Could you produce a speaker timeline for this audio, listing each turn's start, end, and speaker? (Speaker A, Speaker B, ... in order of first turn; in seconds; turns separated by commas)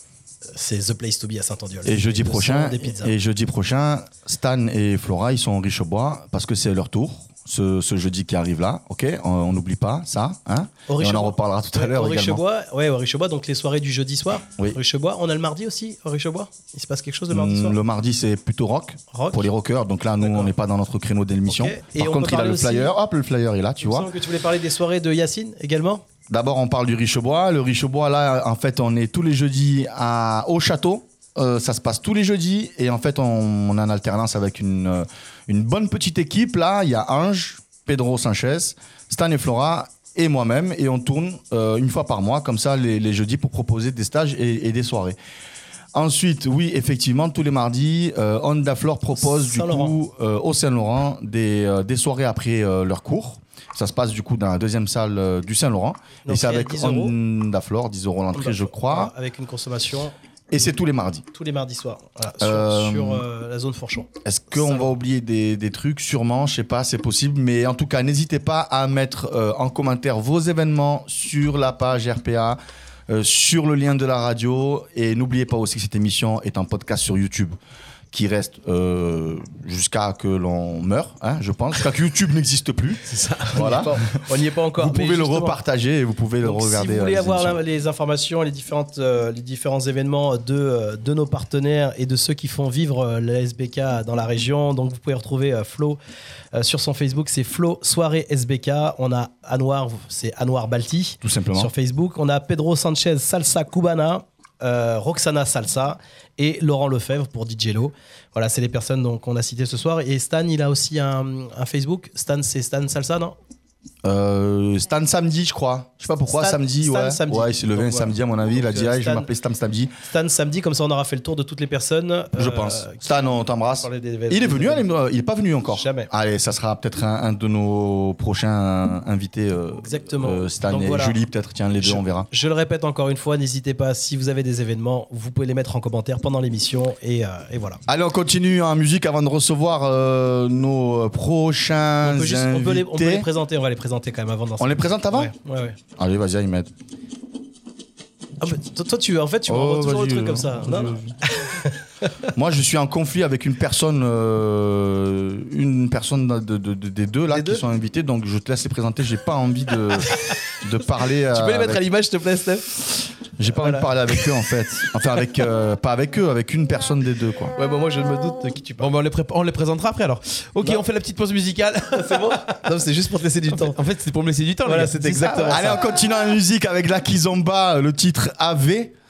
Speaker A: 0.5-3.1, Speaker B: 1.8-12.4, Speaker A: 10.9-17.8, Speaker B: 17.3-24.1, Speaker A: 19.1-19.5, Speaker A: 20.2-20.5, Speaker A: 21.5-22.9, Speaker A: 23.8-26.0, Speaker B: 26.3-45.2, Speaker B: 45.9-59.1, Speaker A: 49.2-49.9, Speaker A: 56.2-57.1, Speaker A: 58.3-60.7, Speaker B: 60.5-61.2, Speaker A: 61.3-64.9, Speaker B: 62.4-63.2, Speaker B: 64.2-77.6, Speaker B: 78.1-84.0, Speaker C: 83.1-83.7, Speaker A: 83.5-85.6, Speaker B: 84.8-87.6, Speaker A: 86.4-96.0, Speaker A: 96.5-113.3, Speaker B: 101.2-101.7, Speaker B: 114.0-119.9, Speaker A: 116.3-119.3, Speaker A: 120.1-123.1, Speaker B: 122.3-132.3, Speaker A: 123.8-124.9, Speaker A: 125.7-126.1, Speaker A: 129.8-131.2, Speaker A: 131.8-137.8, Speaker B: 137.9-143.3, Speaker A: 142.0-145.8, Speaker B: 144.6-145.3, Speaker B: 146.0-146.7, Speaker A: 148.4-152.1, Speaker B: 149.5-151.1, Speaker B: 152.3-160.1, Speaker A: 157.3-157.6, Speaker B: 160.6-161.8, Speaker A: 161.3-162.7, Speaker B: 163.4-167.5, Speaker A: 163.5-164.3, Speaker A: 167.6-168.9, Speaker C: 168.8-172.7, Speaker A: 171.9-173.8, Speaker C: 173.6-175.8, Speaker A: 174.6-175.8, Speaker B: 175.5-178.9